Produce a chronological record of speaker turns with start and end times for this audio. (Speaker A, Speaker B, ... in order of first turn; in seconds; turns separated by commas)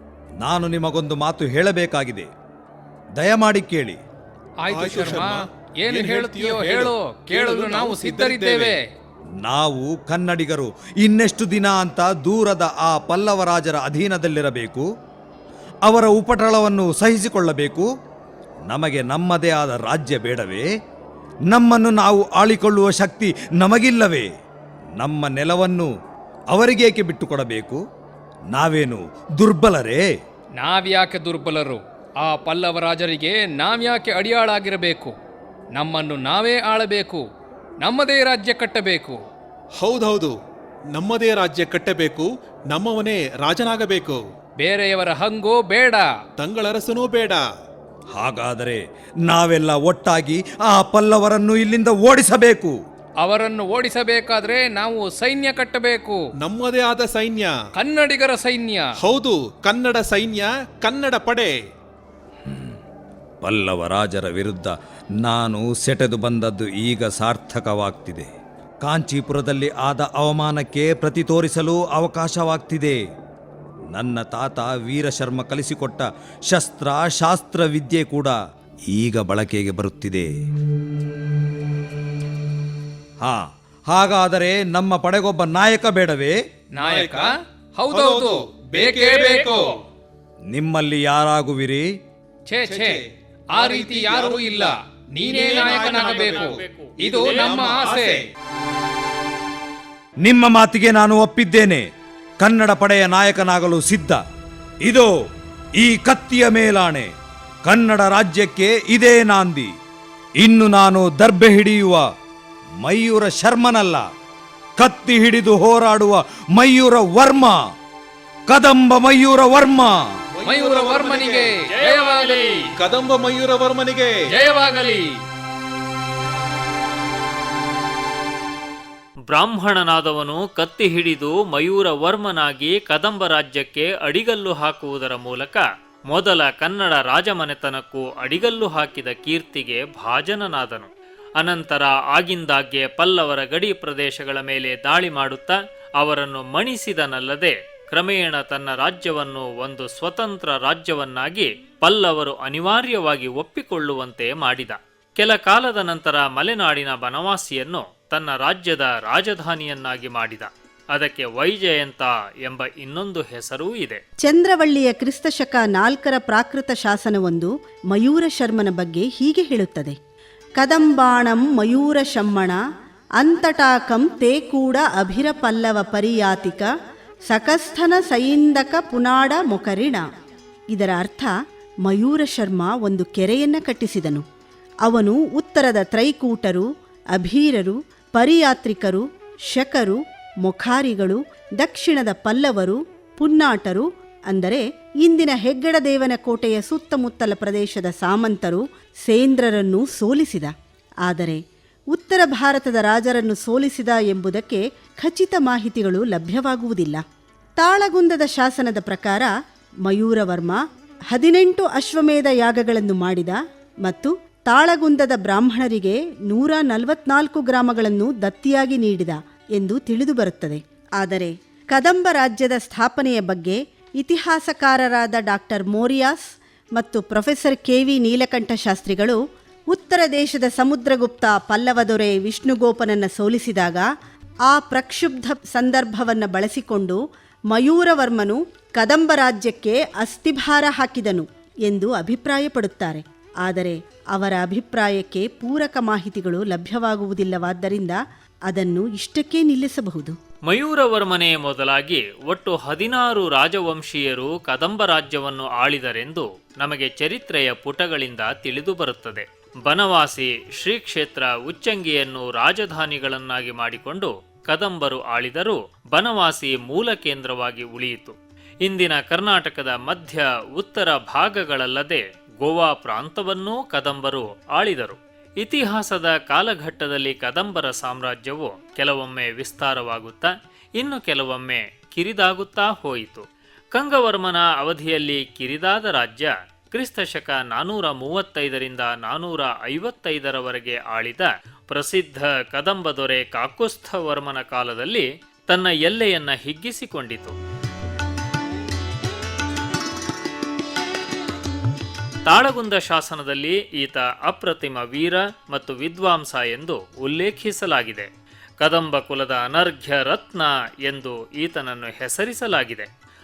Speaker A: 0.4-2.3, Speaker A: 3.2-4.0, Speaker B: 4.6-8.8, Speaker C: 4.7-8.8, Speaker A: 9.4-14.9, Speaker A: 15.8-17.9, Speaker A: 18.7-20.7, Speaker A: 21.5-24.3, Speaker A: 25.0-25.9, Speaker A: 26.5-27.8, Speaker A: 28.5-30.0, Speaker B: 30.6-35.1, Speaker B: 35.7-37.2, Speaker B: 37.8-39.2, Speaker C: 39.8-40.3, Speaker C: 40.9-44.2, Speaker B: 44.6-46.1, Speaker C: 46.4-47.4, Speaker A: 48.1-52.7, Speaker B: 53.2-56.2, Speaker C: 56.4-57.5, Speaker B: 57.8-58.9, Speaker C: 59.0-61.5, Speaker A: 62.5-62.8, Speaker A: 63.4-68.3, Speaker A: 68.8-73.0, Speaker A: 73.9-78.4, Speaker A: 78.9-80.3, Speaker A: 83.2-86.4, Speaker B: 86.8-89.7, Speaker C: 86.8-87.3, Speaker C: 87.9-89.7, Speaker A: 90.5-91.9, Speaker B: 92.5-93.0, Speaker C: 92.7-93.0, Speaker B: 93.5-98.2, Speaker C: 93.5-94.6, Speaker D: 95.2-97.6, Speaker C: 95.3-96.5, Speaker C: 97.0-98.2, Speaker A: 100.2-101.8, Speaker A: 102.4-104.2, Speaker A: 104.8-105.1, Speaker A: 105.8-107.1, Speaker A: 107.6-109.7, Speaker A: 110.4-112.0, Speaker A: 112.8-114.0, Speaker A: 114.8-117.6, Speaker A: 118.5-120.0, Speaker C: 120.3-121.5, Speaker B: 120.5-122.6, Speaker D: 121.7-122.6, Speaker C: 122.8-124.1, Speaker B: 124.3-125.1, Speaker D: 129.3-164.0, Speaker E: 164.2-170.0, Speaker E: 170.6-172.6, Speaker E: 173.2-176.7, Speaker E: 177.3-180.1, Speaker E: 180.7-184.2, Speaker E: 184.8-207.0, Speaker E: 207.6-209.3, Speaker E: 209.8-233.9, Speaker E: 234.5-250.2, Speaker D: 250.5-297.3, Speaker D: 302.3-308.1, Speaker D: 308.6-312.9